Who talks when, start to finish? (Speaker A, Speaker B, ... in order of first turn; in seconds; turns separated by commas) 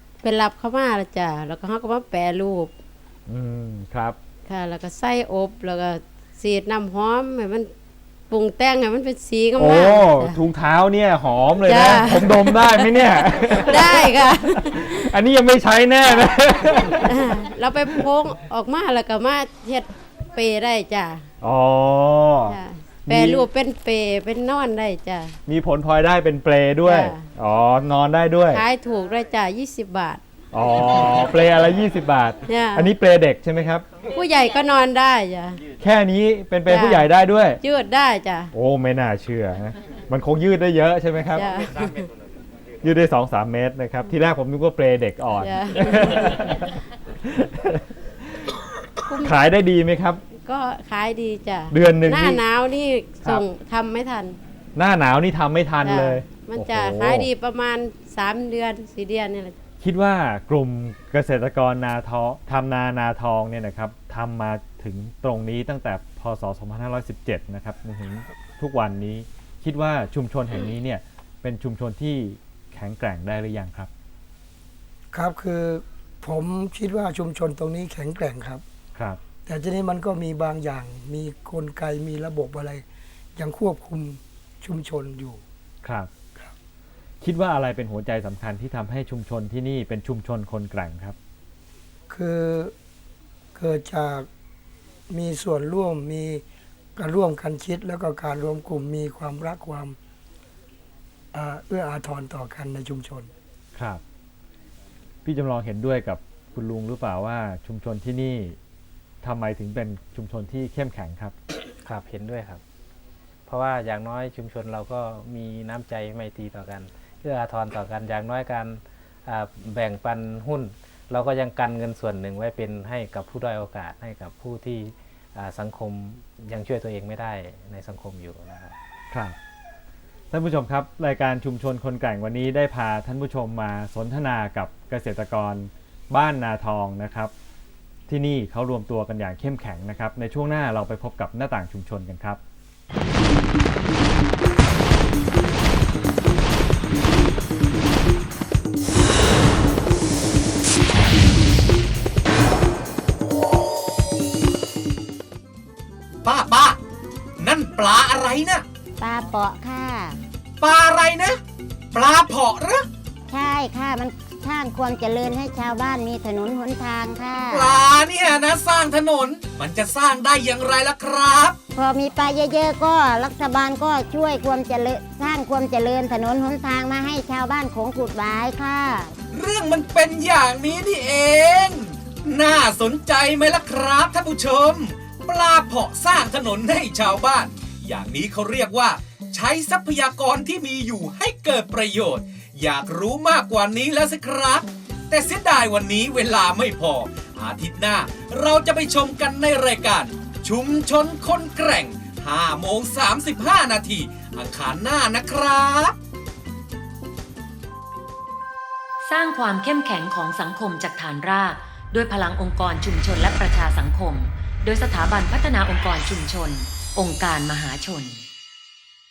Speaker A: 0.2-2.7, Speaker B: 3.3-4.2, Speaker A: 4.5-7.7, Speaker A: 8.3-10.4, Speaker B: 9.6-18.0, Speaker A: 11.7-15.1, Speaker A: 17.1-21.2, Speaker B: 21.4-23.5, Speaker A: 22.5-25.4, Speaker B: 25.5-28.6, Speaker A: 26.8-27.2, Speaker A: 28.5-30.2, Speaker B: 30.5-33.9, Speaker A: 32.5-32.9, Speaker A: 34.1-35.6, Speaker B: 35.8-37.6, Speaker A: 36.7-37.1, Speaker A: 37.6-38.5, Speaker B: 38.5-41.5, Speaker A: 41.3-42.1, Speaker B: 42.8-48.6, Speaker A: 45.4-46.4, Speaker A: 49.1-49.4, Speaker B: 49.2-50.2, Speaker A: 50.3-54.4, Speaker B: 51.7-52.4, Speaker B: 54.8-57.3, Speaker A: 55.8-59.5, Speaker B: 59.8-73.9, Speaker C: 75.1-78.6, Speaker C: 79.5-82.8, Speaker C: 83.4-85.4, Speaker B: 85.8-86.1, Speaker B: 87.2-91.2, Speaker C: 92.1-92.7, Speaker C: 93.5-94.3, Speaker C: 95.1-96.4, Speaker C: 97.0-100.0, Speaker C: 101.3-103.3, Speaker B: 103.8-104.0, Speaker B: 105.2-108.6, Speaker B: 109.2-111.3, Speaker D: 111.8-112.6, Speaker D: 113.5-128.8, Speaker B: 129.1-129.4, Speaker B: 130.3-137.3, Speaker B: 138.1-142.4, Speaker E: 156.2-156.8, Speaker E: 157.4-158.6, Speaker F: 159.0-160.2, Speaker E: 160.6-161.4, Speaker E: 161.9-162.9, Speaker F: 163.3-167.8, Speaker E: 167.5-171.6, Speaker F: 171.8-179.1, Speaker E: 179.3-205.9, Speaker G: 209.0-218.2